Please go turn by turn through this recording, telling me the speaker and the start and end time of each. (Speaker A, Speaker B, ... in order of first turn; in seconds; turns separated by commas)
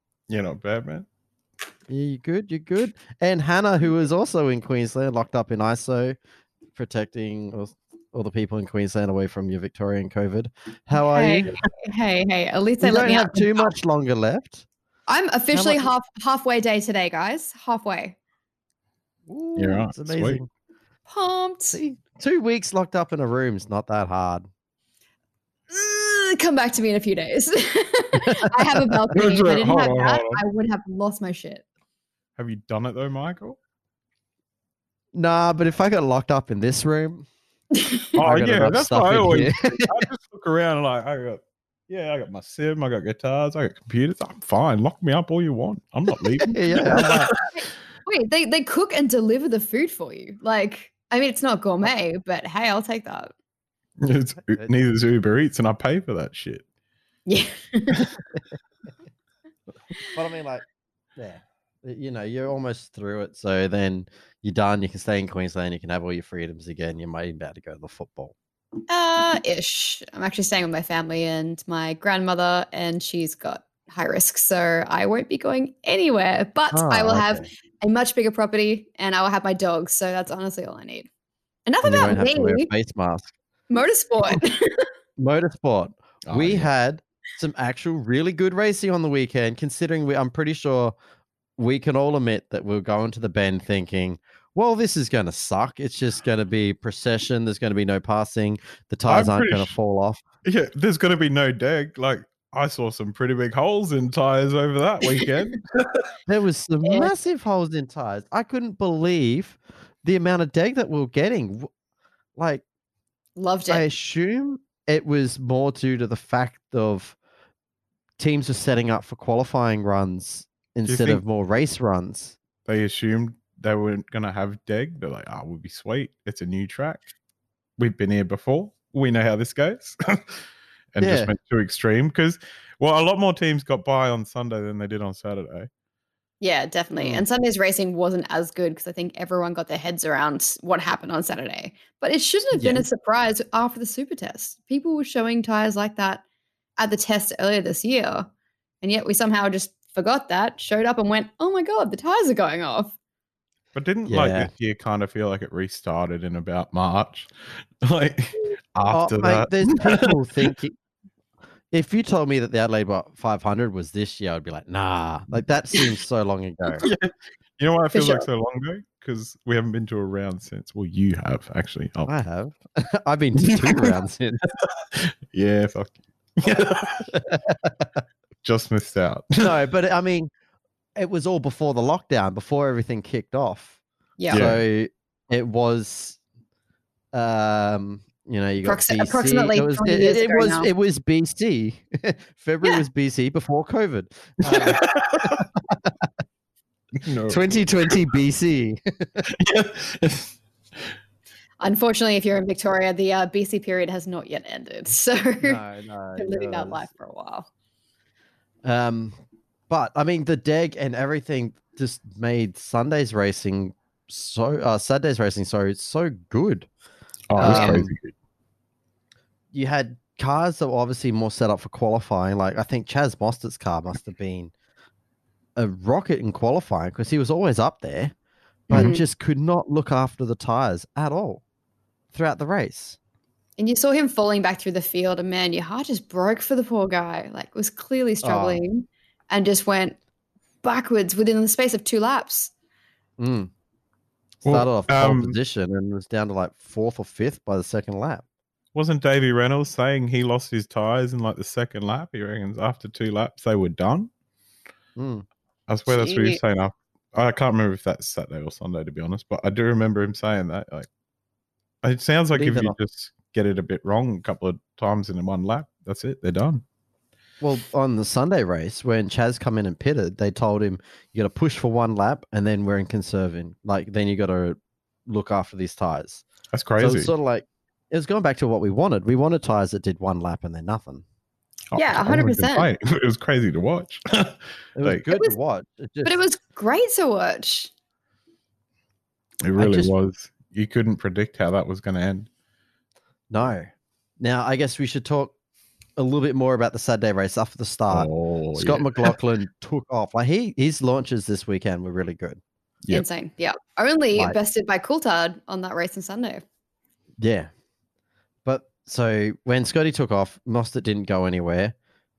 Speaker A: 0.3-1.1, Speaker B: 1.9-6.2, Speaker B: 6.7-11.6, Speaker C: 10.9-13.7, Speaker B: 12.8-14.7, Speaker C: 15.1-18.1, Speaker B: 15.5-15.9, Speaker B: 19.3-20.5, Speaker A: 19.6-20.4, Speaker C: 21.1-21.8, Speaker B: 21.7-24.5, Speaker C: 25.7-31.6, Speaker B: 28.1-29.0, Speaker A: 29.1-30.4, Speaker A: 32.4-33.6, Speaker B: 35.1-37.3, Speaker C: 37.8-38.2, Speaker B: 38.1-40.1, Speaker A: 38.2-47.4, Speaker B: 46.4-47.3, Speaker C: 47.4-53.3, Speaker A: 54.0-56.6, Speaker B: 54.4-54.7, Speaker C: 57.2-58.1, Speaker B: 60.1-60.6, Speaker B: 61.2-68.3, Speaker C: 68.9-81.1, Speaker B: 76.7-77.4, Speaker C: 81.7-82.7, Speaker B: 81.8-83.3, Speaker C: 83.7-84.8, Speaker B: 85.2-91.0, Speaker A: 86.3-86.7, Speaker B: 91.6-100.2, Speaker A: 99.1-99.7, Speaker A: 100.4-106.0, Speaker B: 106.3-111.7, Speaker C: 106.8-107.1, Speaker B: 112.3-112.6, Speaker C: 113.3-113.8, Speaker B: 113.7-117.2, Speaker B: 118.2-122.4, Speaker A: 120.8-121.2, Speaker A: 122.7-127.1, Speaker A: 127.8-130.4, Speaker A: 130.9-135.7, Speaker B: 131.0-131.3, Speaker C: 136.4-146.2, Speaker B: 137.0-137.2, Speaker B: 142.6-142.8, Speaker C: 146.8-148.3, Speaker C: 148.8-152.9, Speaker A: 153.7-160.5, Speaker B: 154.1-154.5, Speaker B: 158.9-160.7, Speaker B: 161.7-166.9, Speaker A: 166.8-172.1, Speaker C: 167.9-168.3, Speaker B: 172.1-174.4, Speaker A: 174.6-177.1, Speaker B: 177.1-177.8, Speaker A: 178.4-179.4, Speaker B: 179.4-180.3, Speaker B: 180.9-183.8, Speaker C: 184.2-184.5, Speaker A: 184.3-184.6, Speaker B: 184.3-186.2, Speaker B: 187.1-196.1, Speaker C: 188.6-190.7, Speaker A: 194.5-195.4, Speaker A: 197.0-197.9, Speaker B: 197.3-199.2, Speaker A: 199.2-200.3, Speaker C: 201.6-205.6, Speaker B: 205.4-206.9, Speaker C: 206.2-207.5, Speaker B: 208.6-209.2, Speaker B: 209.7-216.7, Speaker A: 217.3-218.1, Speaker B: 217.4-217.9, Speaker C: 217.4-217.8, Speaker B: 219.5-224.5, Speaker B: 225.6-228.1, Speaker C: 228.7-229.0, Speaker B: 228.7-231.4, Speaker B: 232.1-233.0, Speaker C: 233.6-240.0, Speaker B: 238.2-238.6, Speaker C: 240.6-242.5, Speaker B: 243.2-243.5, Speaker A: 244.4-245.4, Speaker B: 244.4-248.2, Speaker A: 248.7-254.1, Speaker B: 254.9-255.2, Speaker A: 255.7-260.9, Speaker C: 255.9-256.4, Speaker A: 261.8-266.6, Speaker B: 262.3-262.8, Speaker B: 267.4-276.2, Speaker A: 276.5-277.1, Speaker B: 276.8-281.0, Speaker A: 281.7-285.0, Speaker C: 281.8-282.7, Speaker B: 284.8-286.2, Speaker C: 285.1-285.4, Speaker C: 286.0-287.7, Speaker A: 289.4-292.3, Speaker B: 289.6-289.9, Speaker B: 293.3-295.3, Speaker B: 296.0-302.4, Speaker A: 297.9-299.1, Speaker C: 302.9-306.4, Speaker B: 307.2-307.5, Speaker B: 308.4-311.7